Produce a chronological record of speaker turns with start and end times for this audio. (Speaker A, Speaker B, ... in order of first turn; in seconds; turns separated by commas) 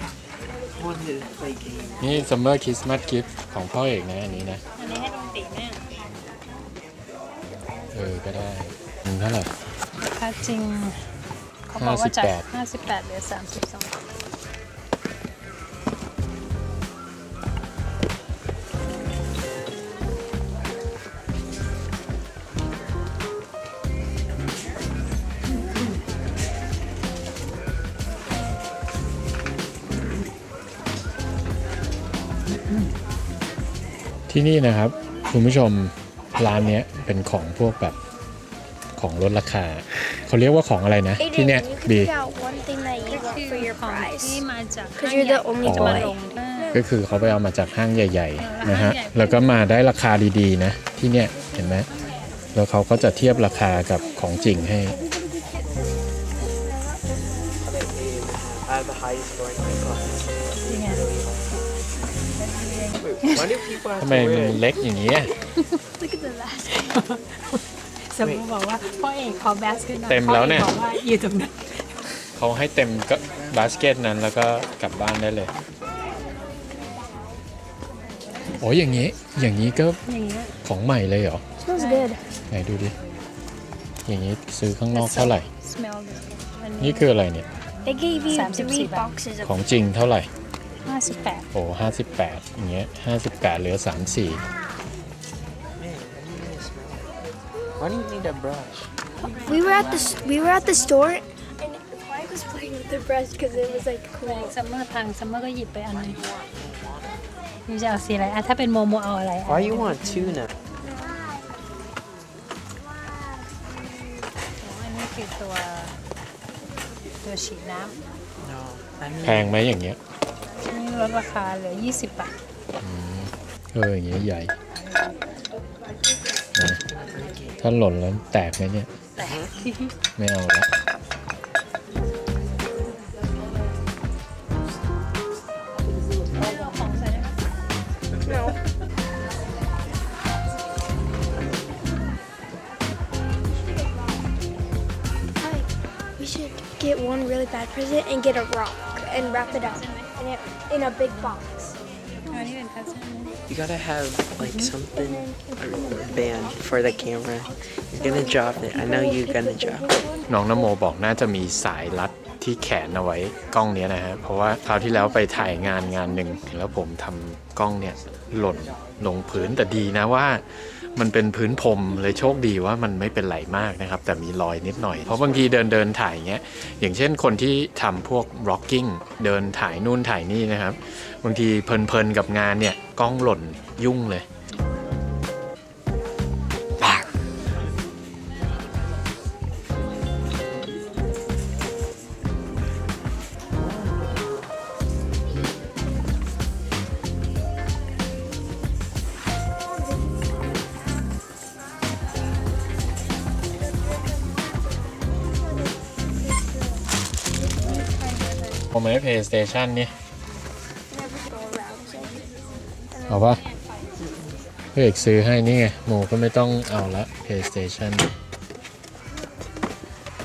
Speaker A: 0.8-2.0, Speaker B: 2.0-4.6, Speaker C: 4.8-6.0, Speaker B: 7.9-9.5, Speaker C: 10.0-11.0, Speaker C: 11.7-14.0, Speaker B: 11.8-12.4, Speaker B: 34.3-38.0, Speaker B: 39.0-42.1, Speaker D: 41.2-44.4, Speaker C: 43.1-46.8, Speaker D: 45.0-46.9, Speaker B: 45.6-46.1, Speaker B: 46.7-51.9, Speaker C: 48.4-49.7, Speaker B: 52.5-55.0, Speaker A: 57.6-61.4, Speaker C: 60.6-61.1, Speaker C: 62.4-63.5, Speaker A: 63.0-64.6, Speaker B: 64.0-65.3, Speaker D: 66.0-67.0, Speaker C: 66.7-72.0, Speaker A: 68.2-68.5, Speaker B: 70.1-70.7, Speaker B: 72.4-75.5, Speaker B: 78.6-80.0, Speaker C: 80.1-80.5, Speaker B: 80.6-81.4, Speaker D: 81.6-82.2, Speaker C: 81.8-82.1, Speaker B: 82.5-82.9, Speaker B: 84.1-85.5, Speaker C: 84.9-87.1, Speaker B: 86.8-87.5, Speaker D: 87.8-89.5, Speaker C: 88.3-89.1, Speaker B: 89.4-90.3, Speaker C: 90.8-91.5, Speaker B: 91.5-94.4, Speaker A: 95.8-97.1, Speaker A: 97.8-99.0, Speaker C: 99.2-100.9, Speaker D: 99.5-104.5, Speaker C: 104.2-106.2, Speaker A: 105.9-107.1, Speaker C: 107.7-110.4, Speaker A: 109.5-110.5, Speaker D: 110.9-111.2, Speaker C: 114.6-116.0, Speaker C: 117.2-118.0, Speaker A: 118.4-119.6, Speaker B: 119.2-120.0, Speaker C: 120.6-122.3, Speaker B: 122.8-124.5, Speaker B: 126.5-126.8, Speaker A: 127.0-127.6, Speaker B: 127.6-128.9, Speaker C: 129.2-129.9, Speaker A: 129.2-129.5, Speaker B: 130.2-130.7, Speaker C: 136.4-137.3, Speaker D: 138.3-138.6, Speaker D: 145.4-151.8, Speaker C: 149.2-150.1, Speaker C: 152.3-153.4, Speaker A: 153.5-159.8, Speaker C: 154.5-154.7, Speaker D: 155.0-160.3, Speaker B: 160.3-170.4, Speaker B: 171.0-184.3, Speaker A: 193.6-194.4, Speaker D: 206.3-206.8, Speaker C: 207.6-208.6, Speaker B: 208.7-209.9, Speaker D: 210.9-212.3, Speaker D: 212.9-213.4, Speaker B: 213.1-213.4, Speaker B: 214.8-218.1